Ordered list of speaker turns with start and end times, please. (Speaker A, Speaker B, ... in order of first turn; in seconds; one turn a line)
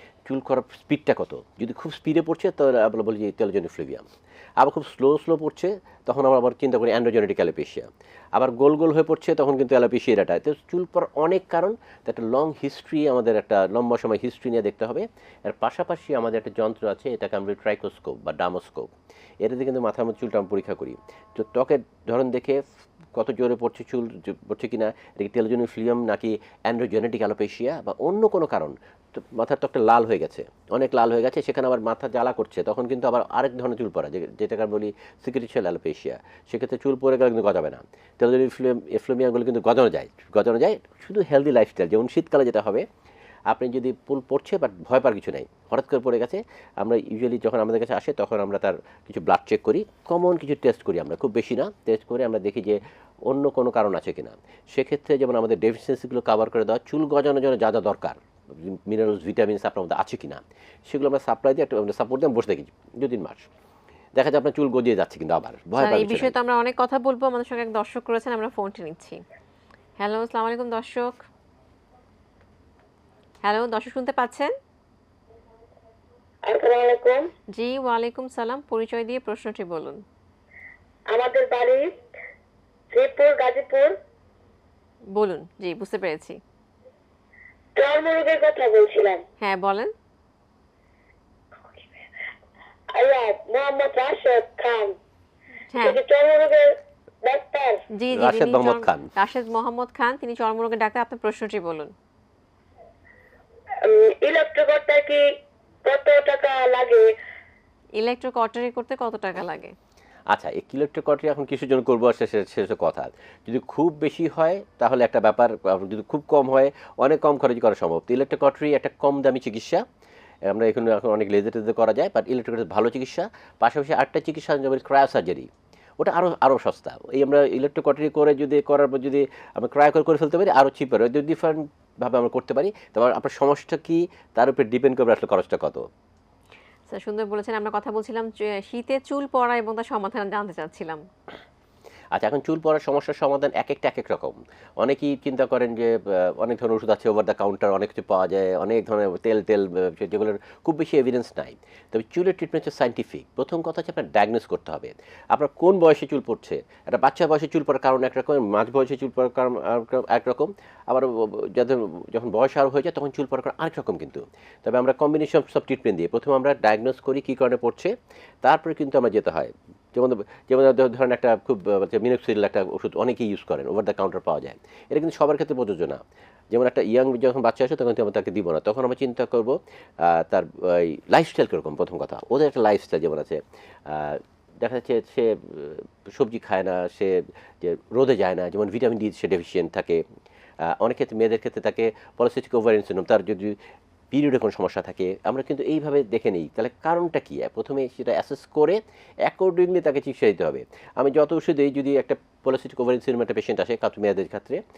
Speaker A: 0.3-4.1
Speaker A: 4.6-18.9
Speaker A: 19.4-22.6
Speaker A: 23.1-42.9
Speaker A: 43.5-63.5
Speaker A: 64.2-66.3
Speaker B: 65.8-69.2
Speaker B: 70.0-71.2
Speaker B: 73.4-74.5
Speaker C: 76.5-77.3
Speaker B: 77.5-80.0
Speaker C: 81.1-82.0
Speaker C: 82.9-84.0
Speaker B: 85.1-86.4
Speaker C: 87.8-89.2
Speaker B: 89.4-89.9
Speaker C: 92.9-95.0
Speaker B: 95.7-96.0
Speaker C: 95.8-97.8
Speaker B: 98.0-101.9
Speaker A: 98.1-99.1
Speaker C: 103.8-105.3
Speaker C: 105.8-107.1
Speaker B: 108.0-109.7
Speaker A: 110.3-119.8
Speaker A: 120.5-125.5
Speaker A: 126.0-135.8
Speaker B: 136.9-141.0
Speaker A: 142.1-176.0
Speaker A: 176.5-190.0
Speaker A: 190.6-193.6
Speaker A: 194.1-204.6